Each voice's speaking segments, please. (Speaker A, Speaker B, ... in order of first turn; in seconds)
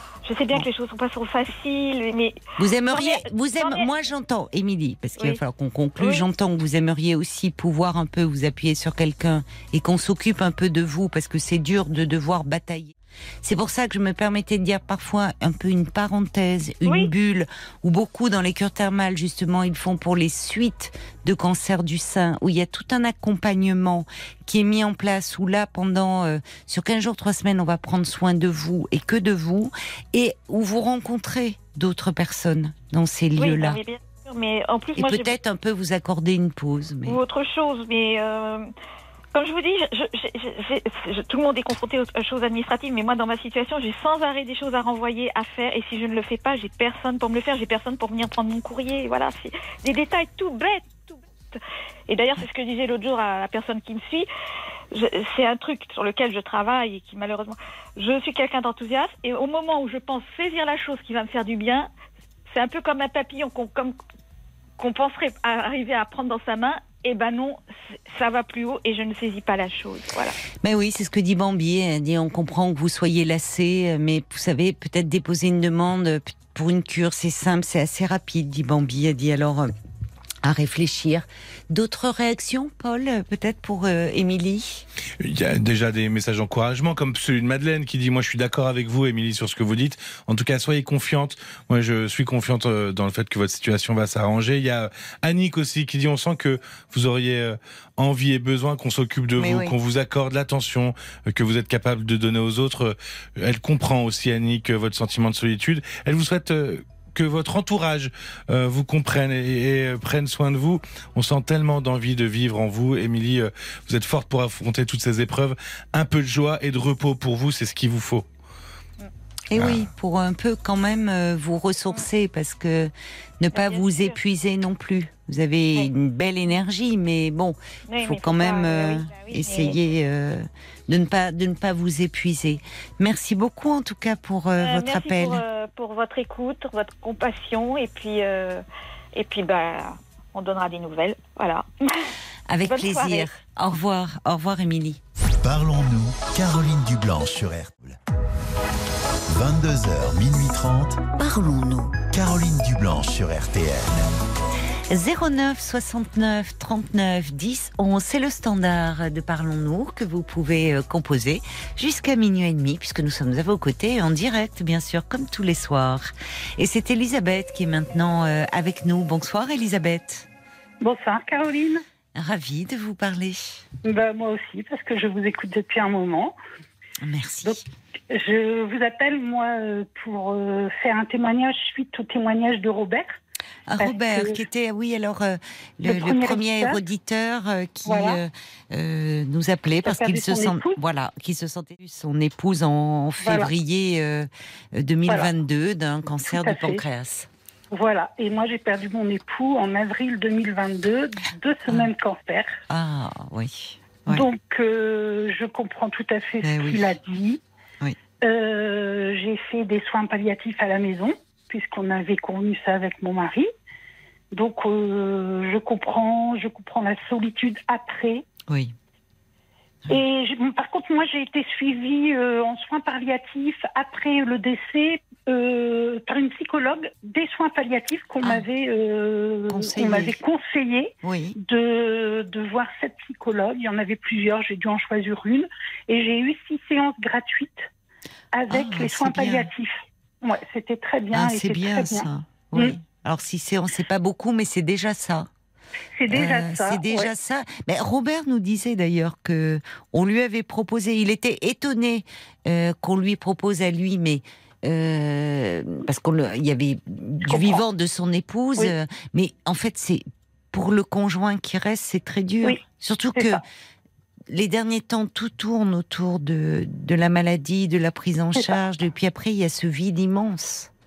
Speaker A: 0.2-2.4, 2.9-3.9, 6.0-6.2, 16.9-17.1, 33.4-35.4, 37.1-38.7, 39.3-54.3, 54.9-61.9, 62.5-64.0, 64.8-70.4, 123.5-124.2, 127.9-129.8, 134.6-138.6, 139.2-142.1, 142.7-143.3
Speaker B: 2.6-33.8, 35.0-37.2, 70.6-79.7, 80.4-84.8, 99.4-99.8, 119.5-135.4, 142.5-145.0, 151.2-152.0, 154.9-170.3, 172.2-173.6, 177.0-177.6, 183.7-197.3, 202.7-204.3, 206.4-206.8, 218.5-218.7, 229.5-230.2, 231.0-231.4, 238.5-239.5, 241.1-245.3, 246.1-263.4, 264.3-270.7
Speaker C: 85.2-118.3, 119.6-119.8
Speaker D: 145.4-148.0, 149.3-151.1, 152.1-154.1
Speaker E: 170.8-171.8, 173.8-176.3, 178.1-183.2, 183.8-184.4, 185.8-186.8, 187.9-188.2, 189.8-190.8, 193.2-193.5, 196.3-196.8, 197.7-202.6, 204.1-207.4, 208.2-213.5, 214.3-218.3, 219.9-237.7, 238.3-242.8, 246.0-247.1, 257.3-257.6, 263.1-263.4